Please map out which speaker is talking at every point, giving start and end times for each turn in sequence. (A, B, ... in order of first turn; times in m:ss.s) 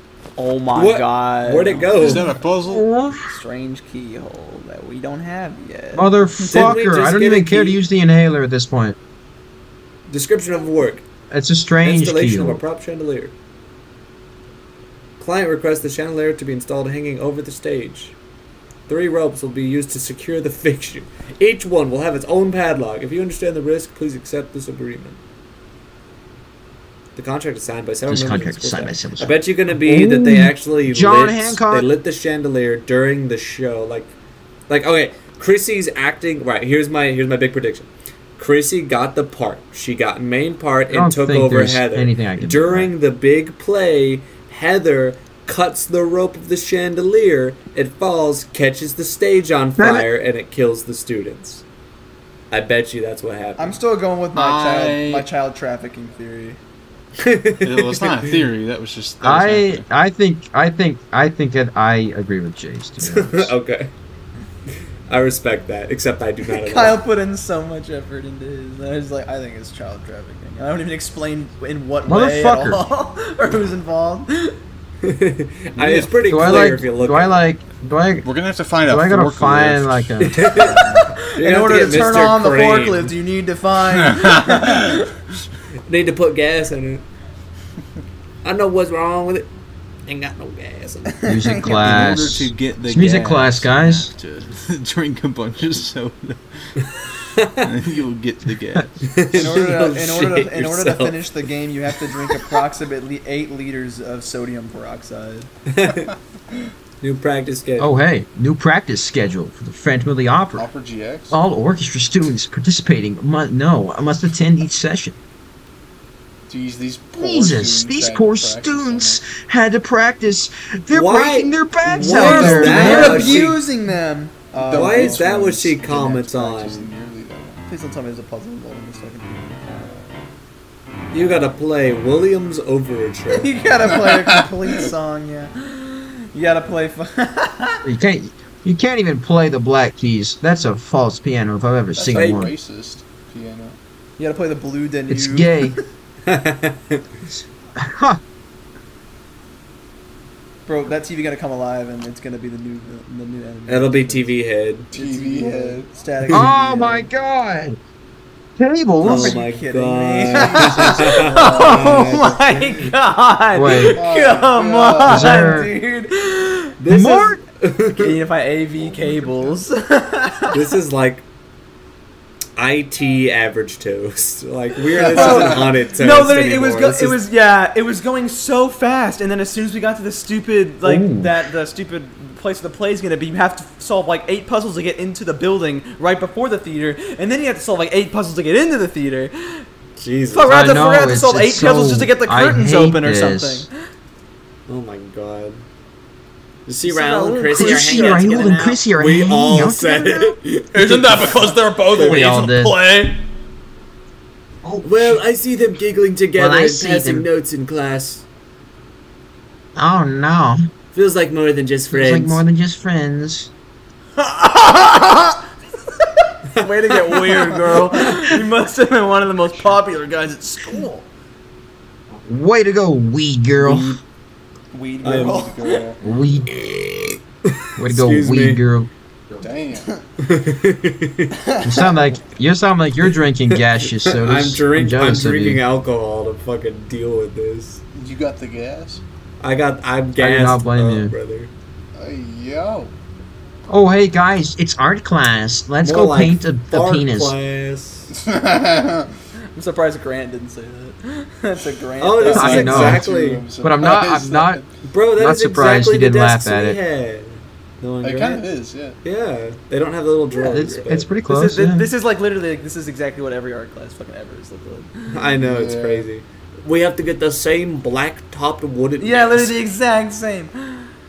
0:00.4-0:02.3 A
0:00.7-0:02.3 B
0:02.0-0:02.8 C
0:02.6-0:03.3 D
0:03.2-0:06.7 A
0:05.9-0:09.0 D
0:06.5-0:07.8 B
0:10.1-0:11.0 B
0:11.3-0:12.6 D
0:11.8-0:13.3 B
0:15.2-0:18.2 B
0:18.9-0:25.2 B
0:27.1-0:34.2 B
0:28.1-0:31.9 D
0:34.7-0:51.6 B
0:40.9-0:42.9 D
0:49.8-0:50.1 D
0:52.5-0:53.8 B
0:53.6-0:56.6 A
0:54.3-0:55.3 C
0:57.2-0:58.4 B
0:57.6-0:59.8 C
0:59.2-1:03.5 D
1:03.0-1:03.9 B
1:04.7-1:07.0 B
1:06.5-1:14.6 A
1:12.0-1:12.8 D
1:15.0-1:17.4 B
1:15.8-1:16.2 C
1:16.2-1:18.3 D
1:18.2-1:20.0 C
1:18.8-1:20.4 D
1:20.2-1:20.8 B
1:20.5-1:21.0 C
1:20.6-1:25.0 A
1:21.4-1:23.1 B
1:24.0-1:25.0 C
1:25.9-1:27.0 B
1:28.4-1:29.5 B
1:30.0-1:31.3 B
1:31.2-1:32.0 A
1:31.2-1:34.1 D
1:31.6-1:39.1 C
1:37.3-1:37.7 B
1:39.0-1:41.2 B
1:39.3-1:45.5 A
1:45.7-1:46.1 B
1:47.0-1:47.9 B
1:47.8-1:50.7 D
1:50.6-1:51.4 C
1:51.3-1:55.2 D
1:56.5-1:59.2 C
1:57.2-2:03.4 D
2:00.9-2:03.6 B
2:02.0-2:03.4 C
2:02.2-2:05.2 A
2:04.6-2:07.6 C
2:04.7-2:06.9 B
2:07.7-2:09.8 A
2:11.1-2:13.5 B
2:13.3-2:17.8 A
2:14.0-2:14.4 C
2:17.8-2:22.5 D
2:21.9-2:23.8 C
2:22.1-2:22.4 B
2:24.2-2:25.8 A
2:25.1-2:25.8 D
2:26.2-2:27.1 B
2:27.3-2:28.2 D
2:30.6-2:34.3 A
2:33.7-2:34.9 B
2:34.9-2:35.8 C
2:34.9-2:37.1 A
2:36.3-2:37.8 D
2:38.6-2:39.4 D
2:39.0-2:46.8 A
2:39.0-2:42.9 B
2:40.3-2:42.3 C
2:43.5-2:44.0 D
2:43.7-2:45.6 C
2:45.0-2:45.7 D
2:46.8-2:48.2 B
2:46.8-2:47.4 D
2:48.0-2:50.6 A
2:48.8-2:49.6 C
2:50.5-2:51.2 B
2:52.6-2:57.2 B
2:54.9-2:55.8 C
2:55.0-3:09.6 A
3:00.8-3:01.4 D
3:10.0-3:10.7 B
3:10.3-3:13.7 A
3:10.5-3:13.7 D
3:14.7-3:15.6 B
3:16.6-3:21.2 B
3:16.8-3:18.7 A
3:17.5-3:20.4 D
3:20.7-3:23.2 A
3:21.9-3:22.7 D
3:24.8-3:28.2 B
3:26.4-3:27.3 D
3:29.8-3:30.7 D
3:30.9-3:32.4 B
3:31.9-3:33.5 D
3:34.2-3:35.4 A
3:36.0-3:41.1 A
3:36.6-3:38.3 B
3:42.2-3:44.0 D
3:43.5-3:44.0 B
3:44.7-3:45.9 A
3:45.0-3:45.5 B
3:45.1-3:46.0 C
3:46.0-3:46.5 D
3:46.5-3:48.6 B
3:47.8-3:48.9 D
3:49.4-3:49.9 C
3:50.2-3:51.4 B
3:51.4-3:52.2 A
3:51.6-3:55.6 D
3:53.8-3:57.8 B
3:57.9-3:59.0 C
3:59.4-4:01.5 B
4:00.2-4:01.1 D
4:01.9-4:02.9 C
4:03.7-4:07.4 D
4:05.8-4:08.1 B
4:08.1-4:09.1 C
4:09.4-4:13.0 A
4:12.0-4:13.4 B
4:12.2-4:14.7 C
4:12.3-4:13.1 D
4:13.6-4:14.6 D
4:14.8-4:18.4 B
4:15.2-4:16.8 D
4:18.0-4:19.0 C
4:19.0-4:21.1 B
4:20.3-4:25.0 A
4:20.4-4:21.9 D
4:25.1-4:29.5 B
4:25.4-4:26.1 C
4:29.0-4:30.9 A